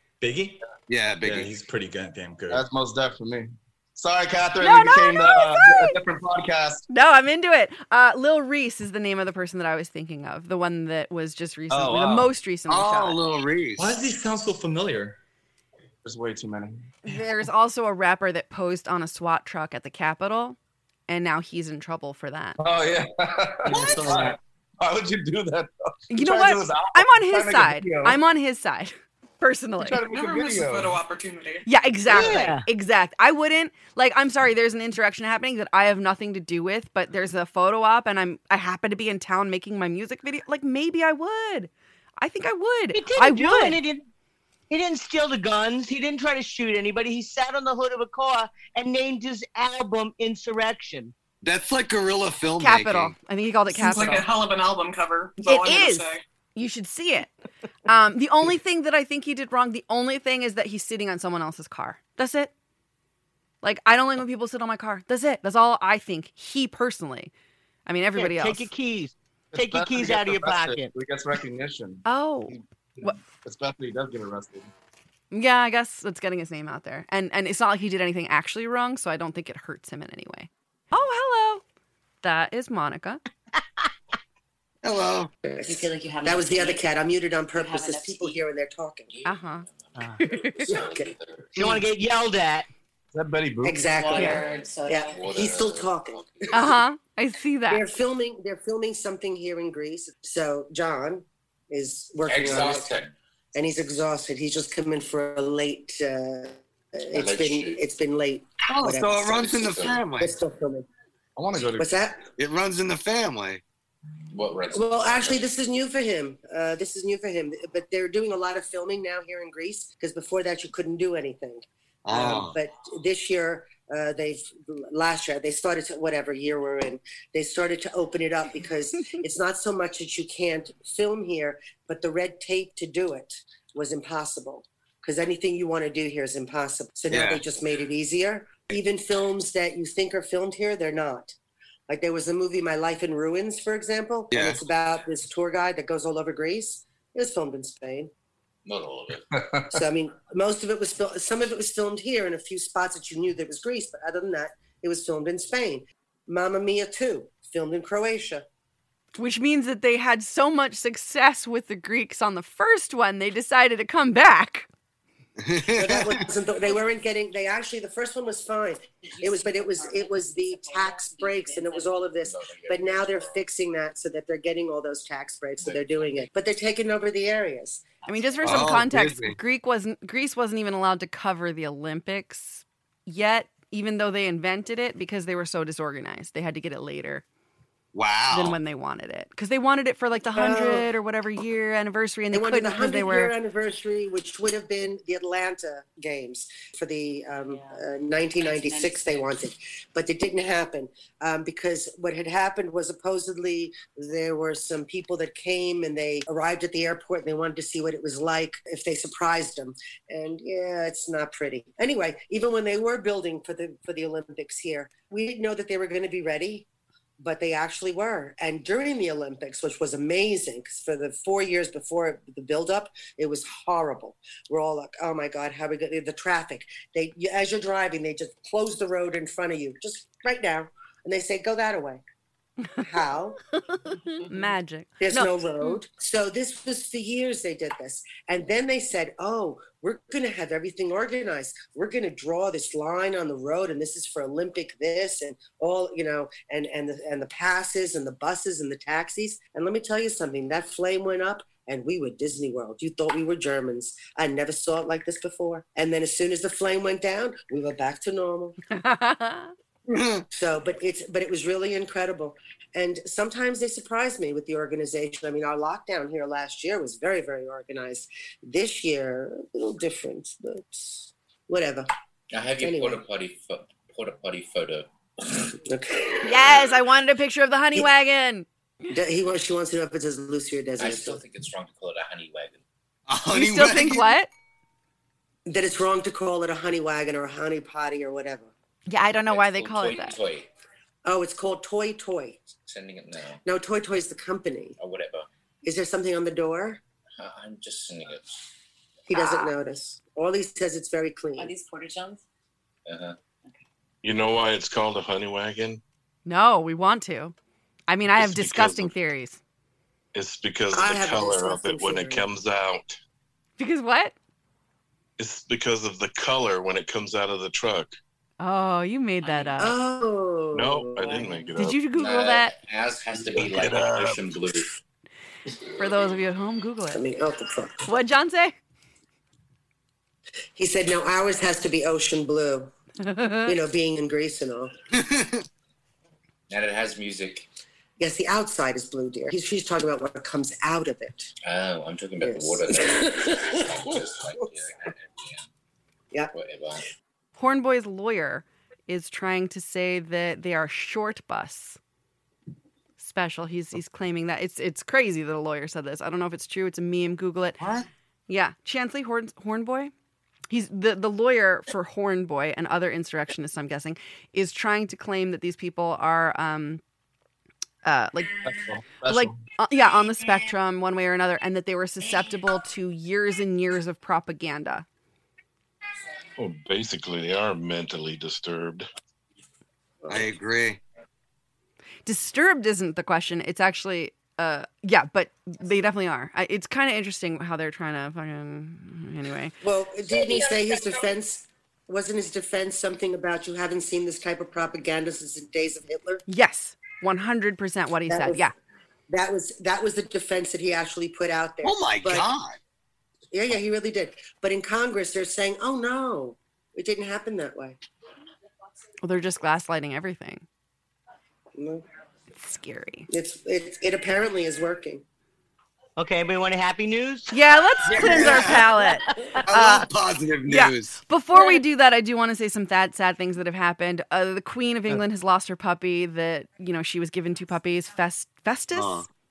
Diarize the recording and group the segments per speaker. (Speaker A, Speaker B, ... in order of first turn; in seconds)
Speaker A: 0.2-0.6, 1.2-2.6, 13.8-15.2
Speaker B: 0.9-1.5, 12.7-14.0, 23.7-24.3, 51.4-53.1, 84.8-85.3, 108.7-110.3, 112.4-113.6, 122.0-122.6, 137.1-137.4, 144.3-144.6, 165.4-166.2, 178.4-179.4, 187.9-188.6, 259.9-260.2, 283.1-284.1, 334.9-335.4, 357.6-357.9, 380.1-380.8, 401.6-402.6, 417.8-418.7, 419.4-421.0, 428.7-429.1
Speaker C: 2.5-6.8, 11.7-12.3, 16.0-16.8, 22.6-28.2, 29.8-30.9, 69.5-74.7, 93.1-93.8, 111.3-111.9, 149.3-149.7, 323.3-323.8, 368.4-369.4
Speaker D: 4.6-6.0, 6.9-13.2, 17.0-20.6, 21.1-22.6, 26.1-30.0, 31.6-43.8, 52.6-54.3, 55.4-57.3, 57.9-62.5, 63.6-67.3, 67.9-68.7, 72.0-73.2, 75.3-81.6, 82.2-83.2, 89.2-89.7, 90.2-90.7, 96.5-97.8, 159.2-164.7, 178.1-187.2, 188.3-193.3, 233.9-235.8, 258.7-259.5, 276.2-278.4, 283.3-284.3, 288.9-290.2, 299.1-299.5, 306.2-307.3, 307.9-309.4, 313.6-314.1, 318.4-319.8, 321.6-322.5, 325.8-327.0, 327.9-328.5, 333.0-333.6, 347.4-351.8, 353.0-357.6, 358.3-359.9, 360.5-366.8, 367.8-368.5, 369.1-374.9, 382.1-389.5, 396.3-398.5, 409.0-410.4, 412.4-413.1, 417.3-419.9, 420.4-429.1
Speaker E: 30.0-31.6, 53.7-56.2
Speaker F: 32.1-32.6, 42.9-44.0, 44.7-51.1, 68.2-70.9, 91.5-92.7, 416.0-417.3, 418.0-419.2
Speaker G: 85.4-89.1, 90.7-91.1, 93.6-96.7, 97.7-103.0, 103.5-110.9, 111.8-112.2, 114.7-141.3, 141.9-148.1, 149.7-158.4, 165.7-177.9, 190.3-190.9, 192.3-216.7, 217.2-232.0, 232.8-233.4, 235.0-258.6, 260.3-271.9, 272.6-273.0, 275.6-276.6, 278.9-281.2, 285.4-288.5, 291.0-292.5, 293.4-294.8, 295.6-296.8, 299.1-301.6, 310.7-312.3, 319.6-321.4, 326.9-327.8, 330.6-332.7, 333.4-334.7, 338.0-341.3, 342.2-344.4, 380.0-380.3, 389.6-396.2, 398.1-398.4, 399.1-402.3, 403.3-407.8, 411.6-411.8, 413.1-415.0
Speaker H: 85.7-86.9, 87.5-88.4, 93.9-95.2, 169.2-171.9, 197.5-197.8, 198.4-199.1, 301.4-302.2
Speaker I: 89.1-91.6, 94.1-96.5, 102.2-103.1, 107.1-107.8, 109.6-110.0, 114.3-115.5, 148.7-149.3, 172.2-173.4, 175.6-175.9, 272.3-274.9, 280.8-282.6, 289.3-290.5, 292.6-293.4, 294.8-295.3, 297.2-298.4, 302.9-303.1, 321.9-324.6, 336.5-337.5, 341.4-345.4, 346.3-346.8
Speaker J: 304.0-305.8, 308.1-308.9, 310.1-313.0, 315.2-317.9, 320.5-321.9, 323.3-324.2, 376.4-378.9